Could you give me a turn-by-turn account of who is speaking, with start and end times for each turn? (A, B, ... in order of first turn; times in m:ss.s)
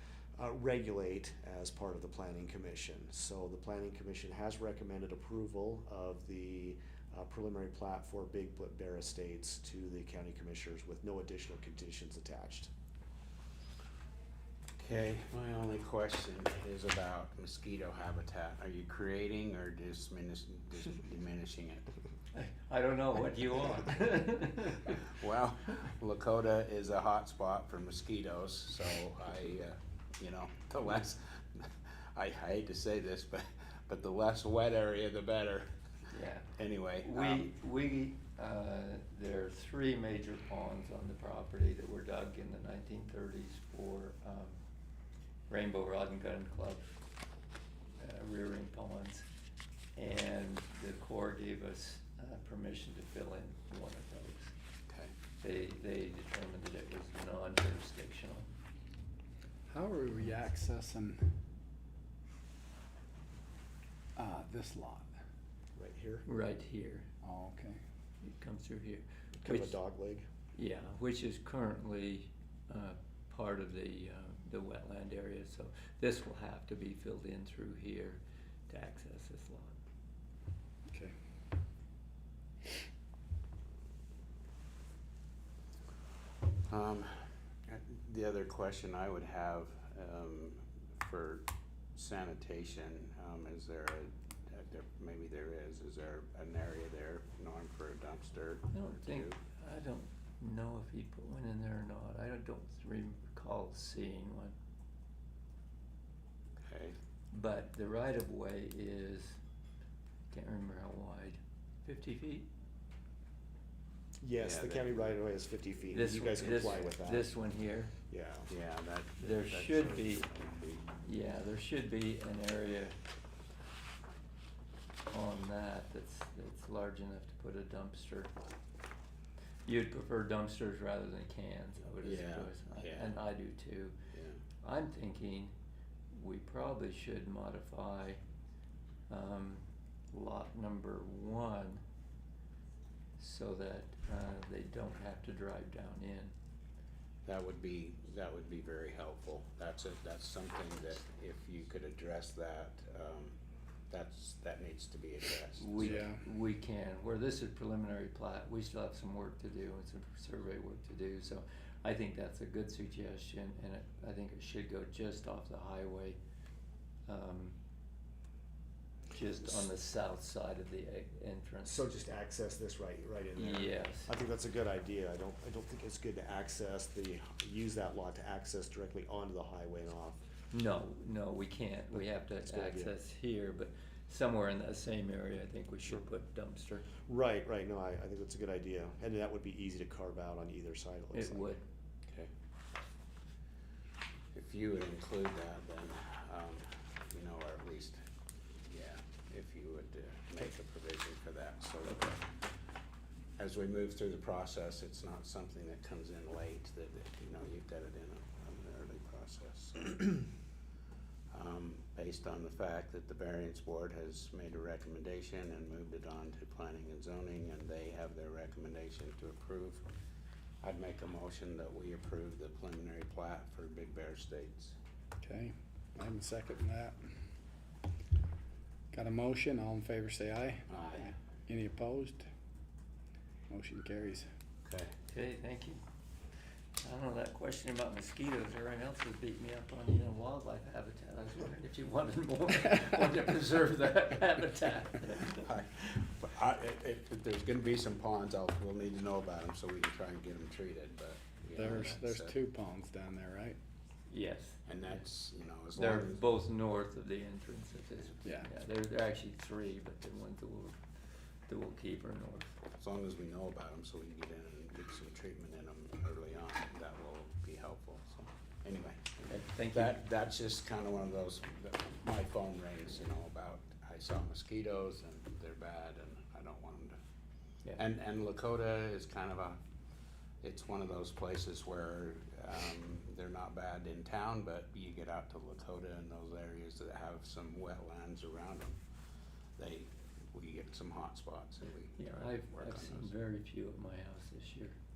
0:00.4-0:12.7 A
0:14.8-0:21.8 B
0:22.3-0:25.0 C
0:25.2-0:35.7 B
0:36.1-0:44.6 C
0:36.6-0:37.5 B
0:45.5-0:46.9 C
0:48.0-0:49.3 C
0:50.0-0:54.5 C
0:55.4-0:58.5 C
0:59.7-1:01.4 D
1:04.2-1:05.1 D
1:05.8-1:06.2 A
1:06.2-1:07.1 C
1:07.2-1:07.8 D
1:08.2-1:09.8 C
1:09.4-1:10.3 A
1:10.5-1:19.8 C
1:20.9-1:21.1 D
1:26.7-1:27.1 B
1:27.7-1:39.4 B
1:38.7-1:44.6 C
1:46.6-1:47.0 B
1:47.3-1:49.4 C
1:50.3-1:52.5 C
1:54.2-1:57.3 A
1:54.4-1:55.2 B
1:55.9-1:57.9 C
1:56.4-1:56.6 B
1:58.1-1:58.5 A
1:58.5-2:00.9 B
1:59.2-2:00.2 C
2:01.0-2:03.0 C
2:05.1-2:08.3 C
2:09.6-2:13.9 C
2:12.0-2:13.1 B
2:14.1-2:14.4 B
2:14.6-2:15.5 C
2:16.1-2:18.2 C
2:19.1-2:21.8 C
2:23.2-2:26.3 C
2:27.2-2:33.4 B
2:33.9-2:36.0 B
2:35.6-2:46.2 C
2:35.8-2:36.2 D
2:47.1-2:47.6 C
2:49.1-2:51.9 C
2:51.6-3:00.2 A
2:53.4-2:54.1 C
3:00.5-3:06.9 C
3:02.4-3:02.9 A
3:07.0-3:11.5 A
3:11.1-3:11.6 C
3:14.3-3:18.0 B
3:18.6-3:22.2 B
3:21.8-3:22.2 C
3:23.4-3:30.3 B
3:31.3-3:39.8 B
3:40.6-3:44.8 B
3:45.2-3:47.1 D
3:48.9-3:50.7 D
3:50.7-3:51.1 B
3:51.5-3:52.3 D
3:53.5-3:54.3 D
3:54.6-3:54.9 B
3:55.1-3:55.8 C
3:56.8-4:05.5 C
4:05.4-4:12.3 B
4:11.5-4:13.6 D
4:14.1-4:14.9 C
4:14.7-4:16.2 B
4:15.7-4:20.8 C
4:18.2-4:18.5 D
4:21.5-4:22.5 C
4:22.8-4:37.0 B
4:29.3-4:30.0 C
4:37.8-4:39.6 B
4:40.4-4:48.8 B
4:49.6-4:53.1 B
4:52.0-4:54.8 C